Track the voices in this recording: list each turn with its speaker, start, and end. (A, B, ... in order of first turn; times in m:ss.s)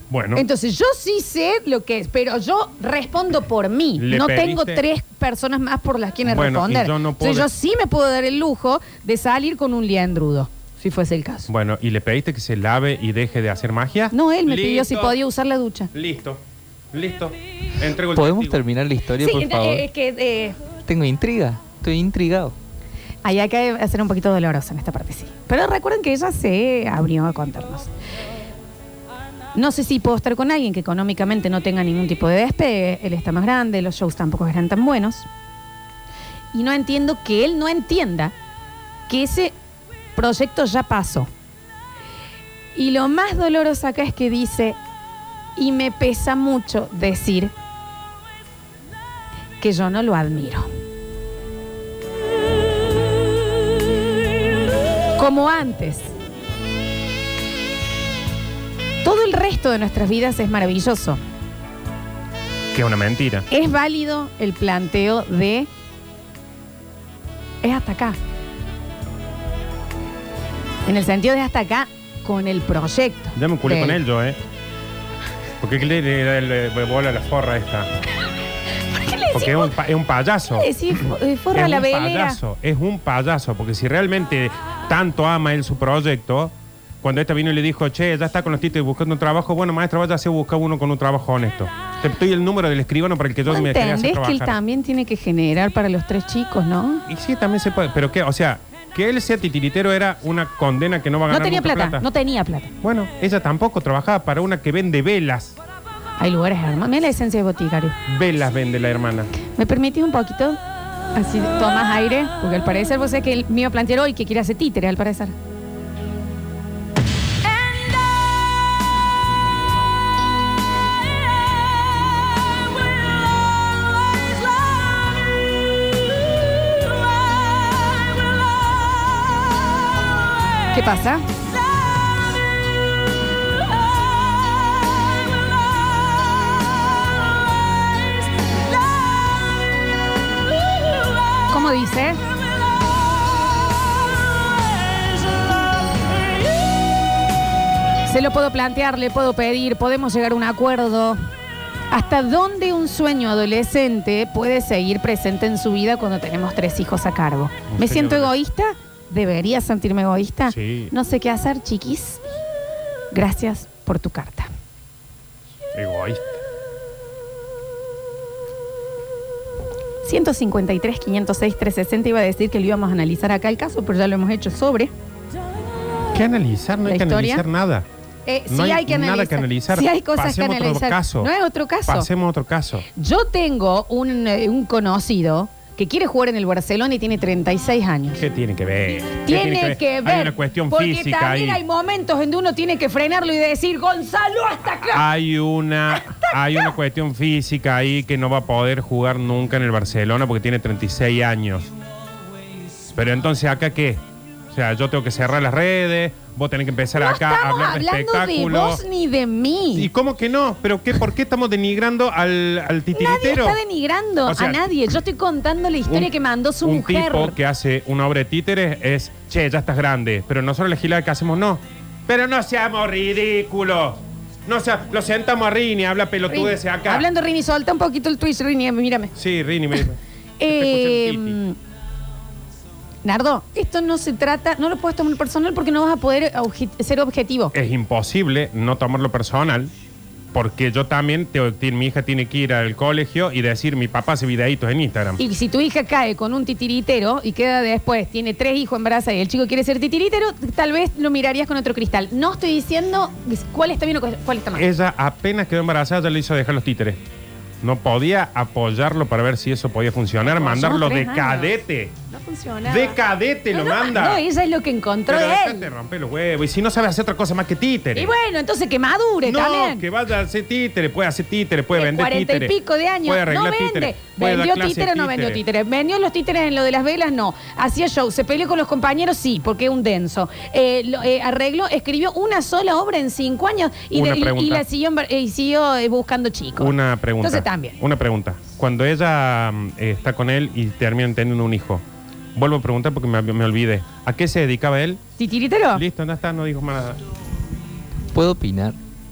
0:00.1-0:00.4 A
0:00.3-0:11.5 B
0:04.0-0:04.8 A
0:06.2-0:07.5 A
0:11.5-0:15.1 A
0:14.1-0:15.9 B
0:15.9-0:18.6 A
0:18.1-0:19.8 C
0:19.2-0:20.6 B
0:20.8-0:22.5 C
0:23.2-0:27.9 B
0:29.5-0:35.3 B
0:36.5-0:38.3 B
0:39.1-0:39.5 B
0:40.1-0:41.3 B
0:42.7-0:44.8 B
0:45.6-0:47.5 B
0:49.6-0:50.7 B
0:55.2-0:56.1 B
0:59.0-1:01.2 B
1:02.7-1:03.4 A
1:03.5-1:05.7 B
1:07.6-1:08.2 B
1:10.9-1:14.0 B
1:13.4-1:14.4 A
1:15.6-1:17.9 A
1:18.9-1:19.7 B
1:19.3-1:34.6 A
1:20.5-1:22.4 B
1:33.5-1:37.0 B
1:37.1-1:42.0 A
1:41.3-1:42.7 B
1:42.8-1:45.6 A
1:46.2-1:48.0 B
1:48.1-1:49.3 A
1:49.5-1:50.6 B
1:51.1-1:55.3 B
2:10.7-2:11.2 B
2:21.5-2:22.2 B
2:28.0-2:31.2 B
2:31.9-2:42.2 B
2:37.7-2:38.3 A
2:40.5-2:40.9 A
2:43.1-2:44.5 B
2:45.7-2:46.4 A
2:50.0-2:54.9 B
2:56.1-2:57.9 A
2:56.8-2:57.4 B
2:58.2-3:02.1 B
2:58.5-3:01.3 A
3:01.9-3:02.8 A
3:03.0-3:08.2 B
3:08.2-3:11.6 A
3:09.2-3:15.0 B
3:14.8-3:21.7 A
3:16.0-3:16.7 B
3:22.9-3:28.8 A
3:26.9-3:29.9 B
3:29.7-3:33.6 A
3:32.9-3:37.4 B
3:34.3-3:34.6 A
3:35.9-3:47.1 A
3:46.3-3:49.1 B
3:49.1-3:51.4 A
3:50.4-3:51.6 B
3:53.0-3:57.5 B
3:57.5-3:59.7 A
4:00.3-4:05.2 A
4:05.2-4:14.7 B
4:14.5-4:17.0 A
4:17.6-4:21.9 A
4:20.2-4:21.5 B
4:22.1-4:23.0 B
4:22.7-4:24.2 A
4:23.5-4:25.7 B
4:25.1-4:28.1 A
4:27.9-4:29.8 B
4:29.2-4:35.4 A
4:31.7-4:47.8 B
4:43.9-4:44.6 A
4:46.6-4:51.8 A
4:52.3-4:55.0 A
4:55.2-4:55.8 B
4:55.7-4:57.0 A
4:58.1-4:58.8 C